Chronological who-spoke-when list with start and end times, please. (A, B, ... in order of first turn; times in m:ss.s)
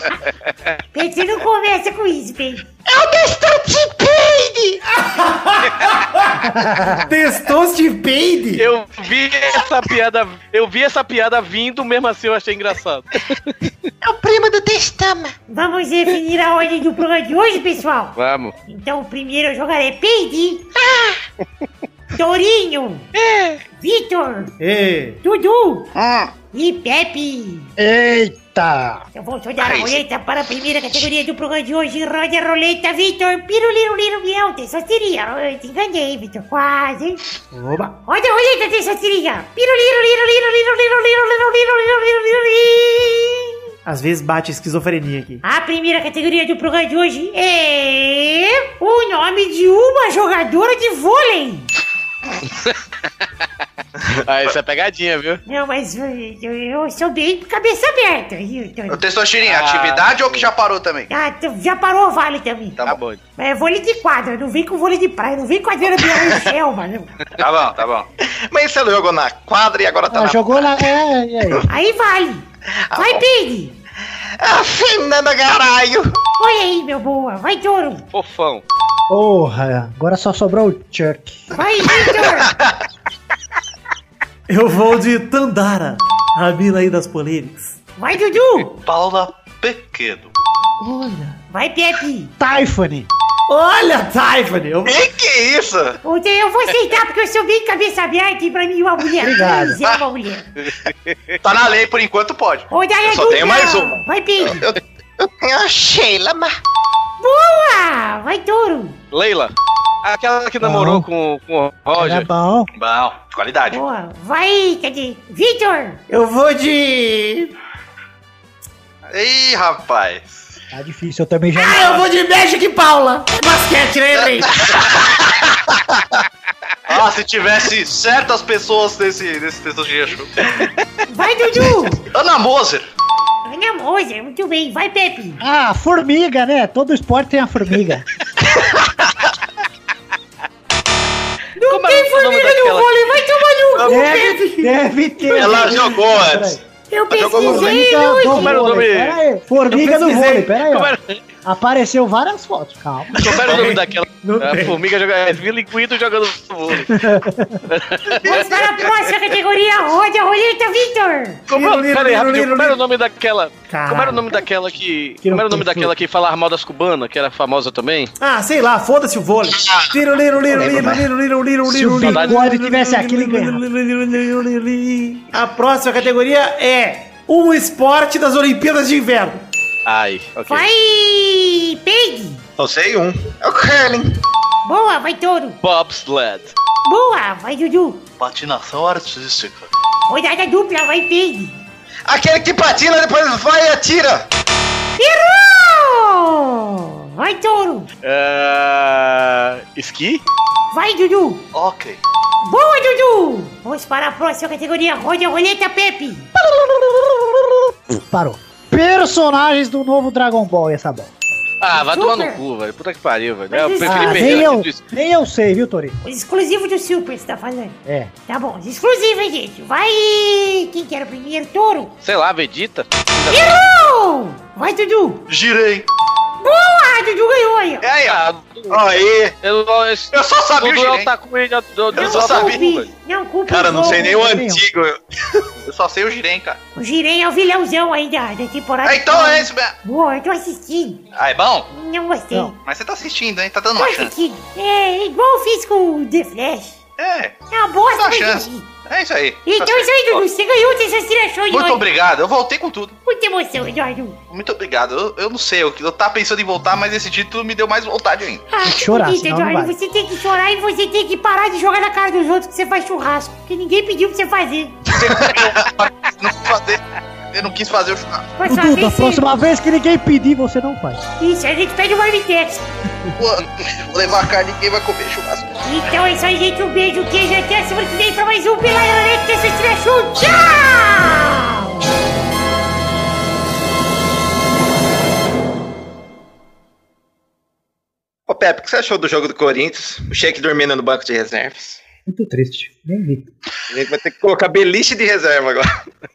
0:00.9-0:02.6 A
0:02.9-0:04.8 B
0:05.0-0:06.3 C
0:06.5-0:07.0 D
0:06.9-0:08.7 C
0:08.6-0:13.7 E
0:14.0-0:15.3 B
0:15.5-0:18.2 A
0:18.2-0:18.5 E
0:18.7-0:20.7 A
0:22.1-0:23.0 A
0:23.7-0:24.5 A
0:24.6-0:25.2 C
0:25.2-0:25.9 A
0:25.9-0:26.3 F
0:26.5-0:27.7 A
0:27.8-0:29.0 D
0:29.1-0:37.2 A
0:29.6-0:30.0 F
0:37.5-0:38.0 C
0:38.1-0:43.5 A
0:43.8-0:45.4 C
0:45.4-0:51.7 A
0:52.4-0:52.8 E
0:54.2-0:55.4 E
0:55.4-0:59.0 A
0:58.9-1:01.1 F
0:59.5-1:00.5 E
1:01.1-1:02.8 A
1:02.8-1:03.2 E
1:03.4-1:07.1 A
1:07.4-1:08.0 F
1:08.3-1:10.9 B
1:10.1-1:11.6 D
1:11.7-1:12.4 A
1:12.9-1:13.2 B
1:12.9-1:13.7 A
1:14.4-1:16.1 B
1:16.4-1:18.0 A
1:18.1-1:18.6 E
1:19.1-1:21.5 D
1:21.5-1:22.5 A
1:22.0-1:22.8 B
1:24.5-1:27.8 C
1:28.0-1:28.8 A
1:28.8-1:30.3 F
1:30.8-1:31.4 C
1:31.5-1:32.3 A
1:32.4-1:33.1 D
1:33.5-1:35.0 C
1:34.8-1:36.0 B
1:36.0-1:40.4 A
1:39.2-1:39.8 D
1:40.6-1:41.3 E
1:41.4-1:42.7 F
1:42.7-1:44.6 A
1:43.0-1:46.5 B
1:47.2-1:49.0 A
1:49.1-1:49.5 E
1:50.0-1:52.3 E
1:50.6-1:51.1 D
1:52.0-1:52.7 D
1:52.8-1:53.8 F
1:53.7-1:56.0 A
1:56.1-1:57.5 C
1:59.1-2:00.4 F
2:00.7-2:02.0 D
2:01.6-2:04.6 C
2:04.6-2:04.9 F
2:06.9-2:10.4 F
2:11.1-2:12.0 A
2:12.0-2:12.8 F
2:13.4-2:15.4 A
2:15.4-2:18.0 D
2:21.6-2:23.0 E
2:21.7-2:24.4 A
2:23.8-2:25.8 C
2:23.8-2:26.6 D
2:25.3-2:27.8 B
2:26.9-2:28.8 A
2:27.3-2:33.2 D
2:28.2-2:29.2 E
2:29.7-2:30.5 C
2:30.7-2:31.2 E
2:33.2-2:37.0 E
2:33.3-2:34.8 C
2:36.9-2:37.6 D
2:37.7-2:38.6 E
2:38.2-2:41.4 A
2:41.5-2:48.1 E
2:41.5-2:42.8 C
2:43.7-2:44.4 C
2:45.2-2:45.9 D
2:48.2-2:59.4 C
2:49.6-2:49.9 B
2:50.5-2:51.1 B
2:51.6-2:53.6 D
2:52.0-2:52.4 E
2:59.8-3:00.7 E
3:00.5-3:02.4 A
3:02.6-3:04.2 B
3:04.6-3:05.6 A
3:05.6-3:06.5 E
3:06.8-3:08.0 A
3:08.2-3:09.7 F
3:10.1-3:11.6 A
3:12.1-3:14.2 B
3:15.0-3:17.9 A
3:18.0-3:20.2 E
3:20.7-3:21.4 A
3:21.5-3:22.0 F
3:22.4-3:26.3 A
3:27.9-3:31.1 D
3:31.6-3:34.8 E
3:31.7-3:32.4 A
3:33.5-3:34.5 A
3:33.8-3:36.0 D
3:36.0-3:41.9 A
3:37.8-3:38.1 D
3:42.0-3:43.8 E
3:43.3-3:45.2 A
3:45.3-3:45.8 F
3:46.4-3:47.8 A
3:47.8-3:48.2 F
3:48.0-3:48.8 E
3:48.7-3:49.3 B
3:49.4-3:52.6 E
3:50.1-3:51.1 F
3:51.9-3:52.9 F
3:51.9-3:54.2 A
3:53.5-3:55.4 B
3:54.1-3:54.6 D
3:55.6-3:56.6 F
3:56.8-4:01.0 A
3:58.8-3:59.7 F
4:01.1-4:01.7 F
4:01.7-4:02.5 A
4:02.6-4:04.1 F
4:03.8-4:06.8 A
4:07.0-4:07.4 F
4:07.5-4:08.7 A
4:07.9-4:10.2 F
4:09.4-4:11.8 A
4:11.5-4:12.9 F
4:13.0-4:14.2 A
4:14.3-4:18.4 F
4:18.5-4:24.8 A
4:18.6-4:19.7 D
4:25.0-4:26.8 F
4:27.3-4:28.3 F
4:28.4-4:29.3 A
4:28.4-4:31.0 D
4:31.2-4:32.6 A
4:33.2-4:35.7 F
4:35.6-4:41.7 A
4:48.3-4:51.8 B
4:52.0-4:53.2 D
4:53.7-4:55.7 B